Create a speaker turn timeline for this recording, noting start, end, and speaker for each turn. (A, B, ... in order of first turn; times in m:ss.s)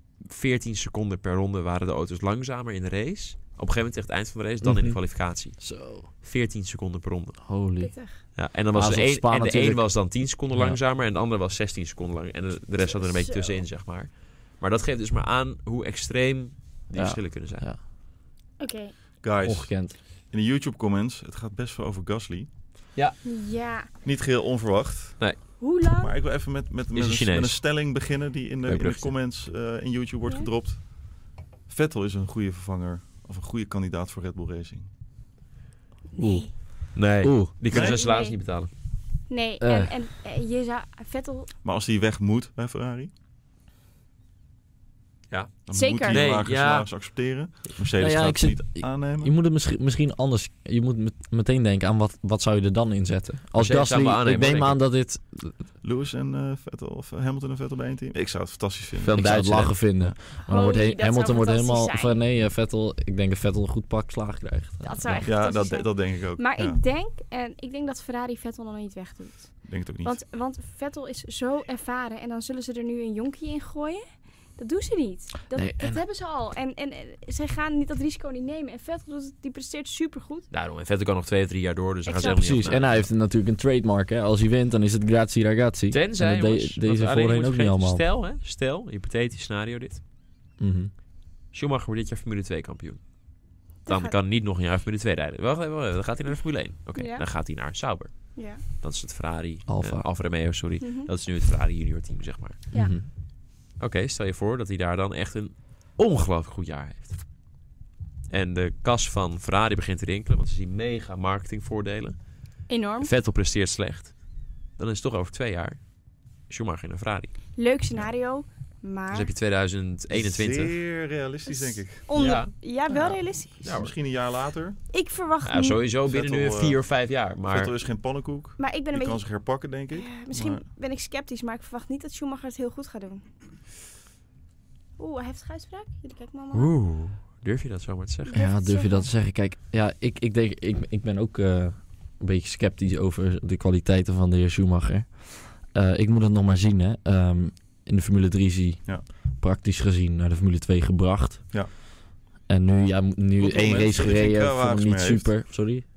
0:00.2-0:07.4 A
0:04.6-0:05.0 B
0:05.6-0:06.1 B
0:07.4-0:10.8 B
0:07.8-0:08.2 C
0:08.4-0:17.6 A
0:12.8-0:13.6 C
0:16.9-0:17.8 B
0:18.6-0:18.9 C
0:19.2-0:22.5 D
0:19.4-0:20.0 B
0:23.2-0:23.9 C
0:24.0-0:34.9 D
0:25.6-0:26.1 C
0:26.9-0:27.9 A
0:28.6-0:29.1 A
0:36.1-0:36.5 C
0:36.2-0:37.5 B
0:36.9-0:38.7 A
0:37.7-0:38.0 D
0:37.7-0:38.4 C
0:39.3-0:41.5 C
0:39.6-0:39.9 B
0:41.6-0:43.1 D
0:45.3-0:47.0 A
0:45.7-0:49.3 D
0:45.7-0:46.3 C
0:48.0-0:55.6 B
0:53.5-0:54.8 A
0:55.8-0:59.4 D
0:59.0-0:59.8 A
0:59.1-1:05.3 B
1:00.5-1:02.2 C
1:04.8-1:20.5 C
1:05.2-1:06.8 D
1:09.6-1:10.2 D
1:15.5-1:16.0 B
1:20.5-1:23.0 A
1:22.0-1:22.8 C
1:22.2-1:28.0 B
1:25.9-1:30.0 A
1:30.6-1:30.9 B
1:31.5-1:33.0 A
1:33.8-1:34.1 C
1:33.8-1:42.6 A
1:37.0-1:37.2 C
1:38.3-1:38.6 C
1:39.6-1:40.0 B
1:40.8-1:41.1 C
1:42.7-1:43.1 B
1:43.8-1:47.2 A
1:48.3-1:52.3 A
1:52.7-1:53.1 C
1:53.0-1:54.2 A
1:54.8-1:55.8 A
1:56.5-1:57.3 A
1:57.5-1:59.3 C
1:59.1-2:00.7 A
2:00.1-2:02.1 D
2:01.5-2:03.6 C
2:02.1-2:03.9 A
2:03.6-2:04.8 D
2:04.9-2:05.8 C
2:05.4-2:07.7 A
2:06.1-2:06.8 D
2:07.5-2:10.6 D
2:08.6-2:09.2 C
2:09.9-2:13.2 C
2:15.0-2:16.7 C
2:16.5-2:18.3 A
2:18.2-2:19.1 C
2:18.3-2:31.8 B
2:32.5-2:35.8 B
2:33.4-2:35.4 D